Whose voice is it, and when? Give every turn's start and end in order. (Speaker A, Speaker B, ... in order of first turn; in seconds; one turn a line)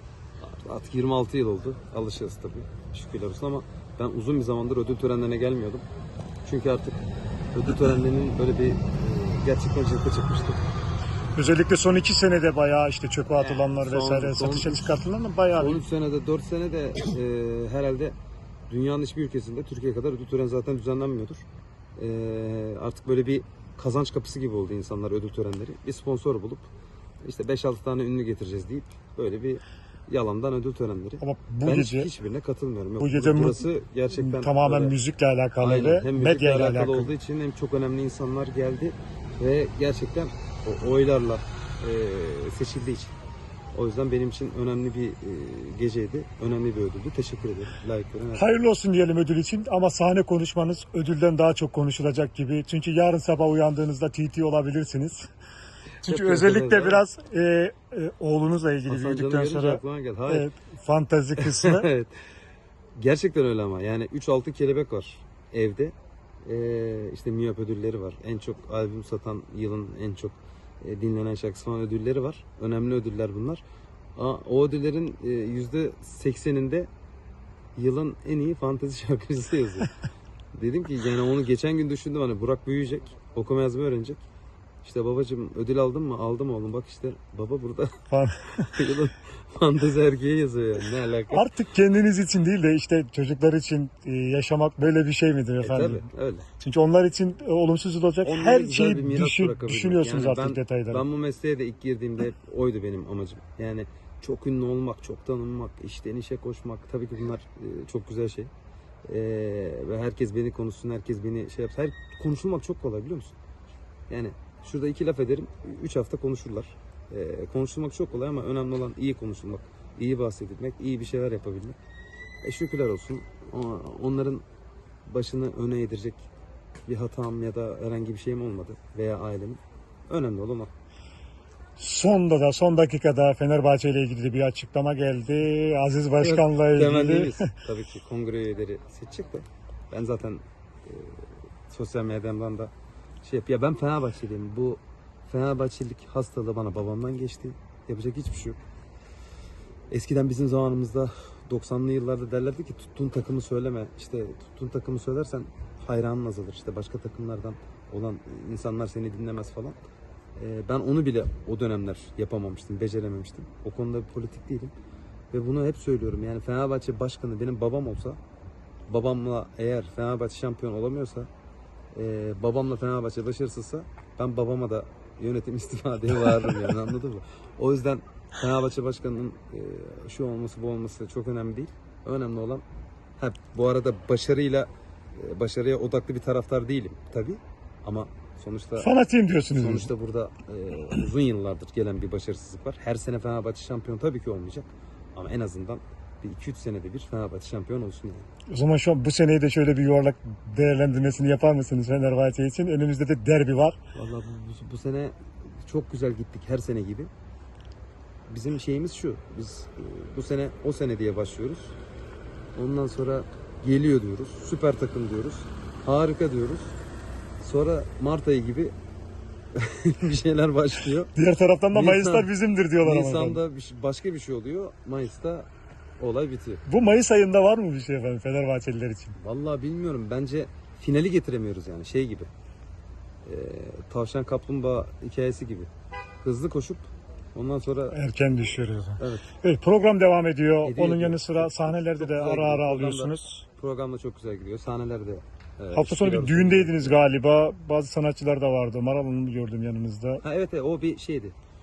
Speaker A: 0.4-5.9
Speaker A: 6.5-10.6
Speaker B: 11.4-15.8
Speaker A: 13.3-15.0
Speaker A: 15.5-18.2
Speaker A: 18.7-21.4
Speaker A: 22.0-26.7
Speaker A: 27.2-35.0
Speaker B: 31.2-32.1
Speaker B: 33.0-37.1
Speaker A: 35.6-43.1
Speaker A: 43.7-48.5
Speaker B: 48.4-55.3
Speaker B: 56.0-61.9
Speaker A: 56.0-57.0
Speaker A: 58.9-60.5
Speaker A: 61.4-62.1
Speaker A: 63.0-73.6
Speaker A: 74.2-76.9
Speaker A: 77.8-79.9
Speaker A: 80.5-84.2
Speaker A: 84.8-88.0
Speaker B: 88.1-88.7
Speaker A: 88.7-91.5
Speaker B: 91.3-96.0
Speaker A: 95.6-96.5
Speaker B: 96.6-101.0
Speaker A: 98.2-108.5
Speaker A: 109.1-113.4
Speaker A: 114.1-121.8
Speaker A: 122.4-124.4
Speaker A: 125.1-126.2
Speaker A: 126.9-130.7
Speaker B: 131.8-137.5
Speaker A: 136.2-142.7
Speaker A: 143.2-148.6
Speaker A: 149.9-159.8
Speaker A: 160.4-164.7
Speaker A: 165.3-168.2
Speaker A: 168.9-171.3
Speaker A: 171.9-182.6
Speaker A: 183.2-188.9
Speaker B: 188.8-189.9
Speaker A: 189.5-198.3
Speaker B: 198.5-203.8
Speaker A: 203.9-207.1
Speaker A: 208.3-211.8
Speaker A: 212.6-216.8
Speaker A: 217.4-218.7
Speaker A: 219.6-221.1
Speaker B: 221.2-223.4
Speaker A: 221.7-222.3
Speaker A: 222.8-226.6
Speaker B: 226.7-229.2
Speaker A: 229.2-232.3
Speaker A: 233.2-235.7
Speaker A: 236.2-238.0
Speaker B: 237.9-243.4
Speaker A: 239.0-239.3
Speaker A: 240.6-247.0
Speaker B: 245.8-250.2
Speaker A: 250.2-251.4